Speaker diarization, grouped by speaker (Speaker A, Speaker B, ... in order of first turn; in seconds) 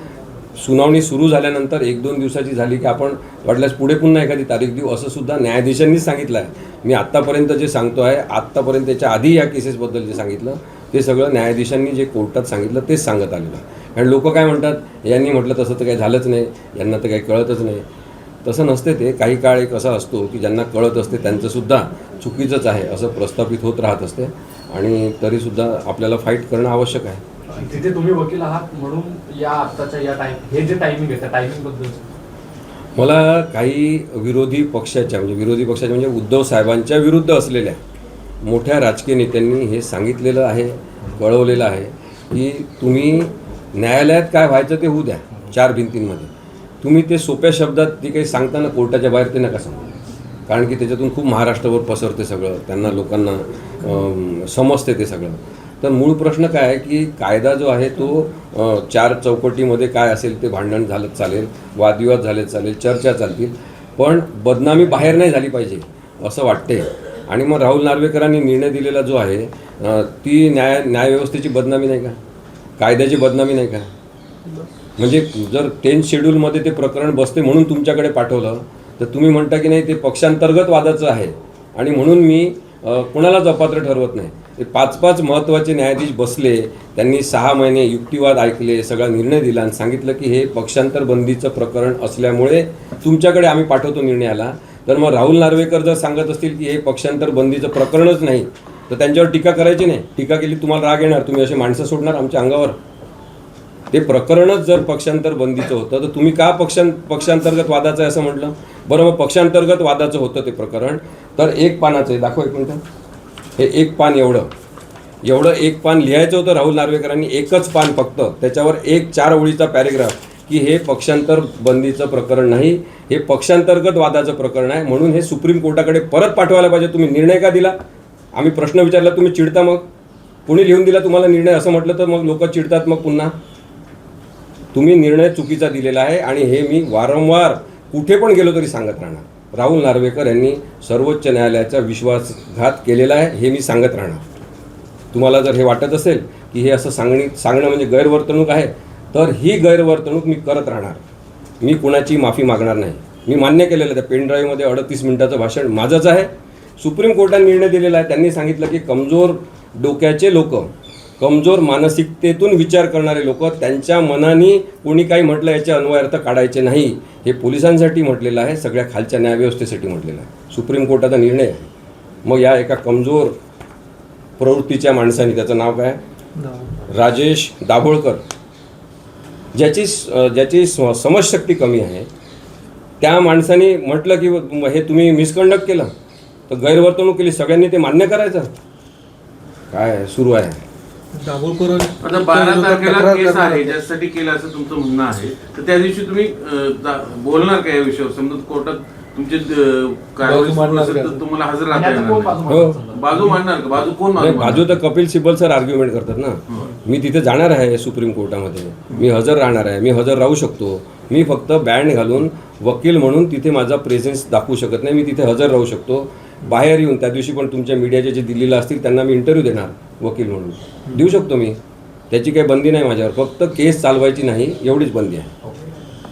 Speaker A: 0.6-17.8, 18.4-27.2, 33.0-37.8, 38.4-46.3, 46.8-49.9, 50.5-72.2, 72.8-73.9, 75.0-102.8, 103.9-112.8, 113.6-114.5, 115.2-127.8, 128.3-129.8, 130.5-133.3, 134.7-144.2, 145.1-151.0, 151.6-171.7, 172.2-173.4, 174.4-176.0, 176.9-178.2, 179.6-182.1, 183.0-185.9, 186.5-188.5, 189.7-190.6, 202.5-202.8, 204.2-221.6, 222.1-225.3
Speaker B: 27.5-32.0, 201.7-203.4
Speaker C: 176.4-176.8, 191.1-193.8, 200.2-201.2
Speaker D: 192.0-204.7